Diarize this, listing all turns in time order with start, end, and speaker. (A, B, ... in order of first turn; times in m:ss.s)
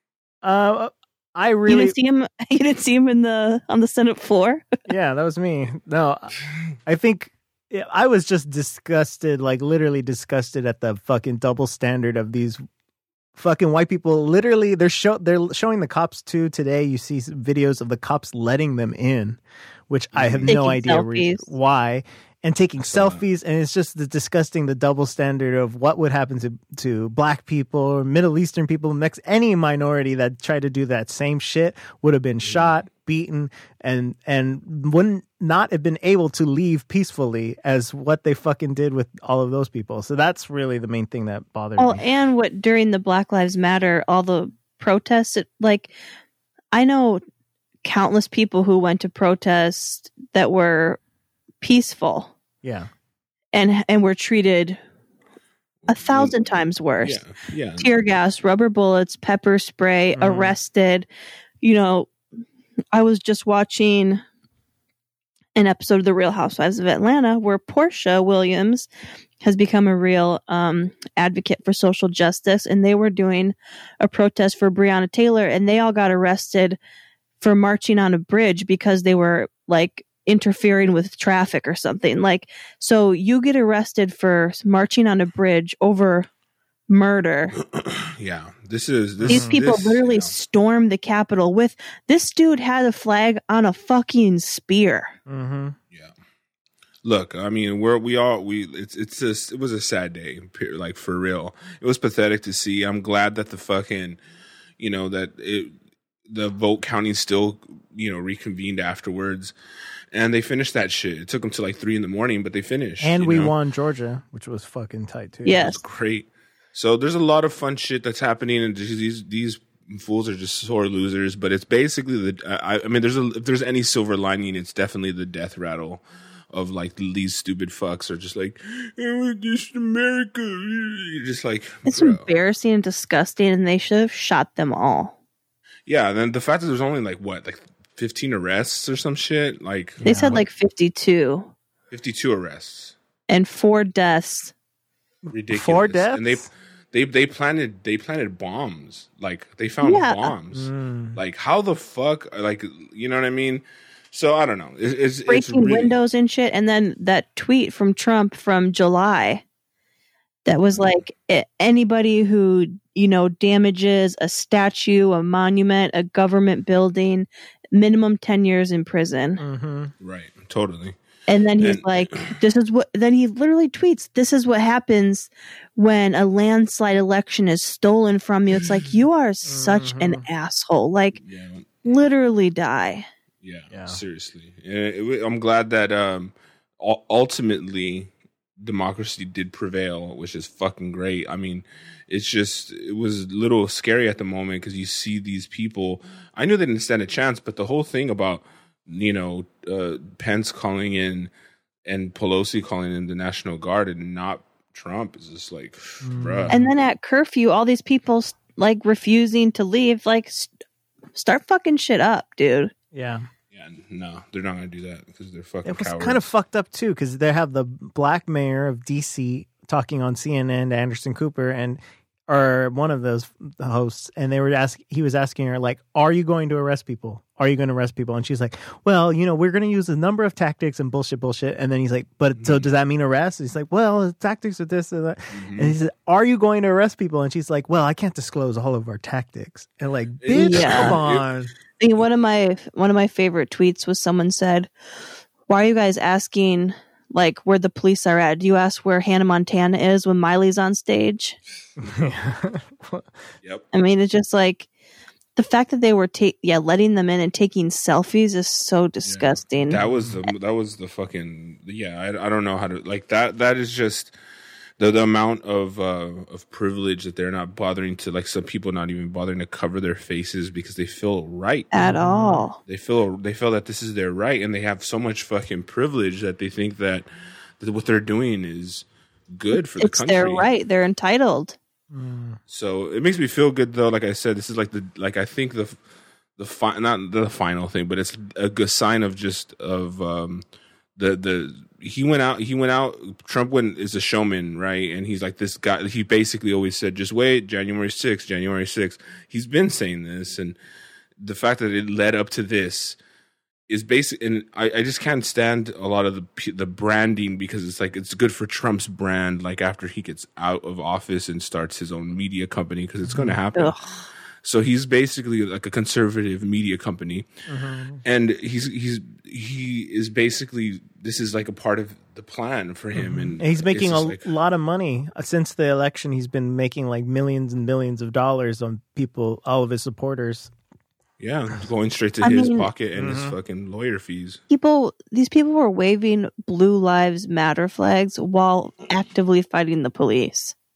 0:00.4-0:01.9 A
0:01.7-0:04.7 B
0:04.9-0:06.3 A
0:06.8-0:12.6 A
0:13.4-0:42.0 A
0:20.1-0:20.5 C
0:20.5-0:21.5 B
0:22.8-0:23.2 C
0:32.4-0:32.7 C
0:41.8-0:45.9 B
0:46.7-0:47.2 B
0:47.8-0:51.0 B
0:51.6-0:52.3 B
0:52.6-0:52.9 A
0:53.5-0:54.8 B
0:55.8-0:56.4 C
0:55.9-0:57.2 B
0:57.0-0:57.9 C
0:57.8-1:01.1 B
1:00.1-1:00.5 A
1:01.6-1:02.1 B
1:02.9-1:04.2 B
1:05.6-1:08.9 B
1:09.4-1:16.8 B
1:17.4-1:26.3 B
1:26.9-1:27.6 B
1:27.7-1:30.3 C
1:29.2-1:29.6 A
1:29.3-1:35.1 B
1:35.3-1:35.8 A
1:37.0-1:44.2 C
1:44.8-1:45.7 C
1:46.3-1:49.5 C
1:50.1-1:53.5 C
1:53.0-1:55.7 A
1:55.4-1:55.8 B
1:55.6-2:12.3 C
2:11.8-2:15.1 B
2:15.9-2:20.4 C
2:20.0-2:20.4 A
2:20.0-2:21.5 B
2:21.9-2:22.9 C
2:23.3-2:24.5 B
2:25.3-2:26.5 A
2:25.3-2:35.9 C
2:29.8-2:30.3 B
2:30.5-2:31.2 A
2:35.3-2:39.4 B
2:40.4-2:49.4 B
2:40.7-2:41.0 C
2:49.4-2:49.9 A
2:50.0-2:51.0 C
2:51.3-3:01.2 B
2:51.6-2:52.4 C
2:59.5-3:00.2 A
3:01.2-3:01.7 C
3:01.8-3:03.0 B
3:03.4-3:21.3 C
3:03.7-3:04.0 A
3:21.8-3:26.6 C
3:26.0-3:26.7 A
3:26.5-3:30.5 B
3:31.1-3:32.7 B
3:32.9-3:33.3 A
3:33.5-3:36.2 C
3:35.6-4:01.5 A
3:52.4-3:52.6 C
3:55.3-3:55.7 C
4:00.2-4:01.3 C
4:00.3-4:01.0 B
4:01.8-4:04.7 B
4:05.5-4:11.4 B
4:11.8-4:13.1 A
4:13.7-4:14.7 B
4:15.4-4:19.8 B
4:19.0-4:24.1 C
4:19.8-4:20.2 A
4:24.8-4:31.7 C
4:31.7-4:32.6 B
4:31.8-4:32.4 A
4:32.6-4:37.1 C
4:37.6-4:40.5 C
4:39.5-4:41.6 B
4:41.9-4:42.4 A
4:42.5-4:45.8 C
4:46.4-4:50.4 C
4:51.0-5:00.6 C
5:01.2-5:03.0 C
5:03.7-5:13.8 C
5:13.0-5:13.4 A
5:13.5-5:14.0 B
5:14.4-5:17.3 C
5:17.5-5:18.0 A
5:18.0-5:24.2 C
5:23.0-5:30.5 A
5:31.2-5:34.4 C
5:32.2-5:32.7 B
5:33.0-5:33.4 A
5:34.5-5:40.5 B